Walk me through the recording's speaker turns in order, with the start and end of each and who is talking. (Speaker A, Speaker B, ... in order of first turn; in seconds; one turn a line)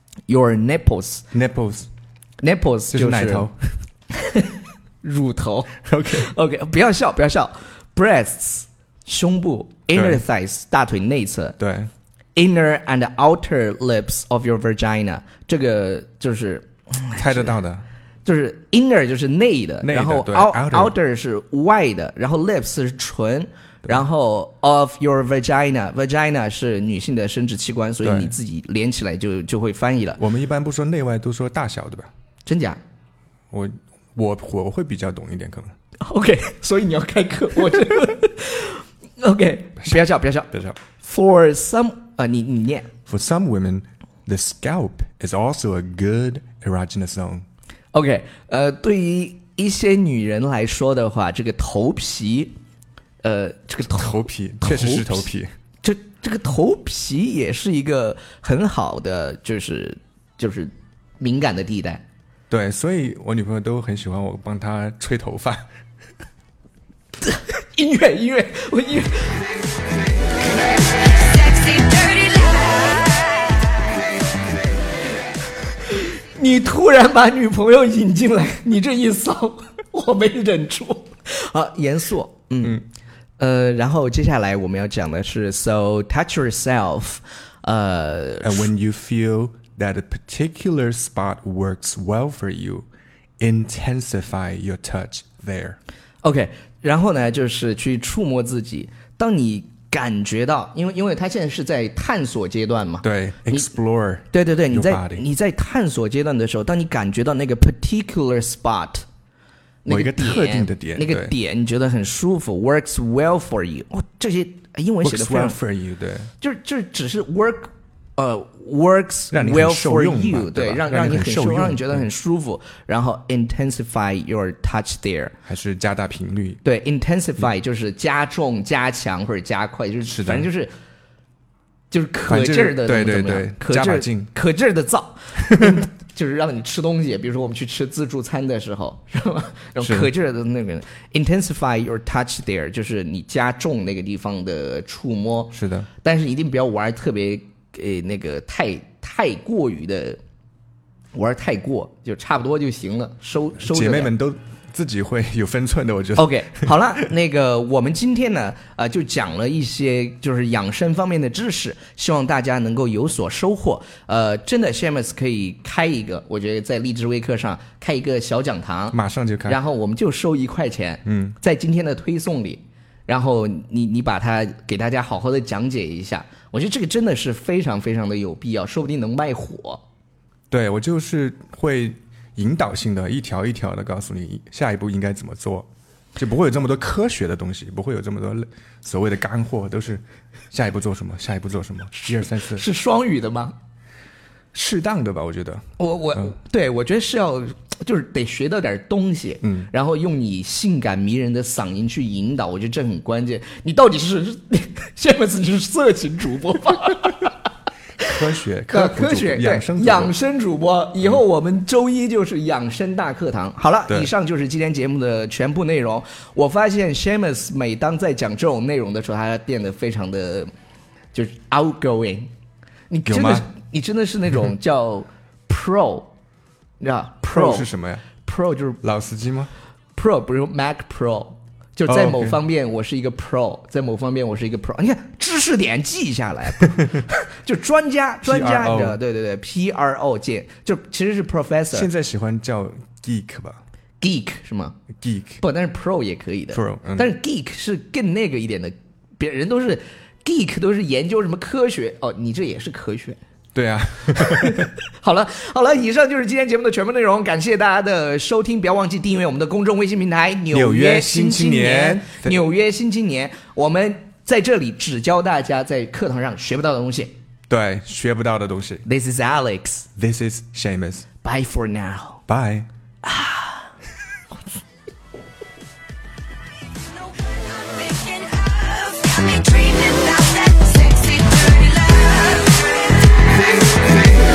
Speaker A: 0.3-1.2
Speaker B: 1.3-1.9
Speaker A: 2.4-3.5
Speaker B: 2.9-3.8
Speaker A: 4.1-11.6
Speaker B: 5.8-6.3
Speaker B: 9.9-10.2
Speaker B: 11.6-11.9
Speaker A: 12.4-17.5
Speaker B: 17.2-17.9
Speaker A: 18.2-30.2
Speaker B: 19.8-20.9
Speaker B: 28.0-28.3
Speaker B: 30.2-32.1
Speaker A: 32.5-32.8
Speaker B: 33.5-35.7
Speaker A: 36.0-42.9
Speaker B: 40.5-40.8
Speaker B: 43.1-47.5
Speaker A: 47.9-52.5
Speaker A: 53.2-55.3
Speaker B: 53.9-55.5
Speaker A: 55.8-62.0
Speaker B: 62.5-65.6
Speaker A: 67.2-69.4
Speaker C: 71.2-73.6
Speaker A: 75.9-82.8
Speaker A: 83.4-88.7
Speaker B: 88.4-92.9
Speaker B: 93.4-95.8
Speaker A: 96.2-103.7
Speaker B: 103.0-105.2
Speaker A: 104.3-109.0
Speaker A: 109.8-115.6
Speaker B: 109.9-111.3
Speaker B: 115.0-116.3
Speaker A: 116.4-125.3
Speaker B: 119.3-122.0
Speaker B: 125.5-126.6
Speaker A: 126.6-130.7
Speaker B: 130.1-130.5
Speaker A: 131.9-150.2
Speaker B: 132.3-134.3
Speaker B: 139.8-140.1
Speaker B: 145.5-145.9
Speaker A: 151.1-154.1
Speaker B: 153.6-156.7
Speaker A: 156.2-179.8
Speaker B: 168.9-169.6
Speaker B: 171.1-171.4
Speaker B: 180.5-192.7
Speaker A: 192.3-193.6
Speaker B: 194.5-195.6
Speaker A: 195.8-207.4
Speaker B: 199.4-199.7
Speaker B: 208.0-210.1
Speaker A: 208.7-220.5
Speaker A: 221.1-222.3
Speaker A: 222.9-226.1
Speaker B: 223.1-223.5
Speaker A: 226.8-227.7
Speaker B: 227.3-228.1
Speaker A: 228.2-228.8
Speaker B: 228.8-229.5
Speaker A: 230.0-241.9
Speaker B: 231.9-232.4
Speaker B: 236.7-237.0
Speaker B: 238.2-239.0
Speaker B: 241.7-243.6
Speaker A: 244.0-244.8
Speaker B: 245.0-245.4
Speaker A: 245.4-253.2
Speaker B: 246.5-247.1
Speaker B: 253.6-254.7
Speaker A: 254.2-267.1
Speaker B: 260.5-262.4
Speaker B: 267.5-268.8
Speaker A: 268.9-269.9
Speaker B: 270.0-271.1
Speaker A: 271.2-272.2
Speaker B: 272.3-272.7
Speaker A: 273.0-273.7
Speaker C: 277.2-282.9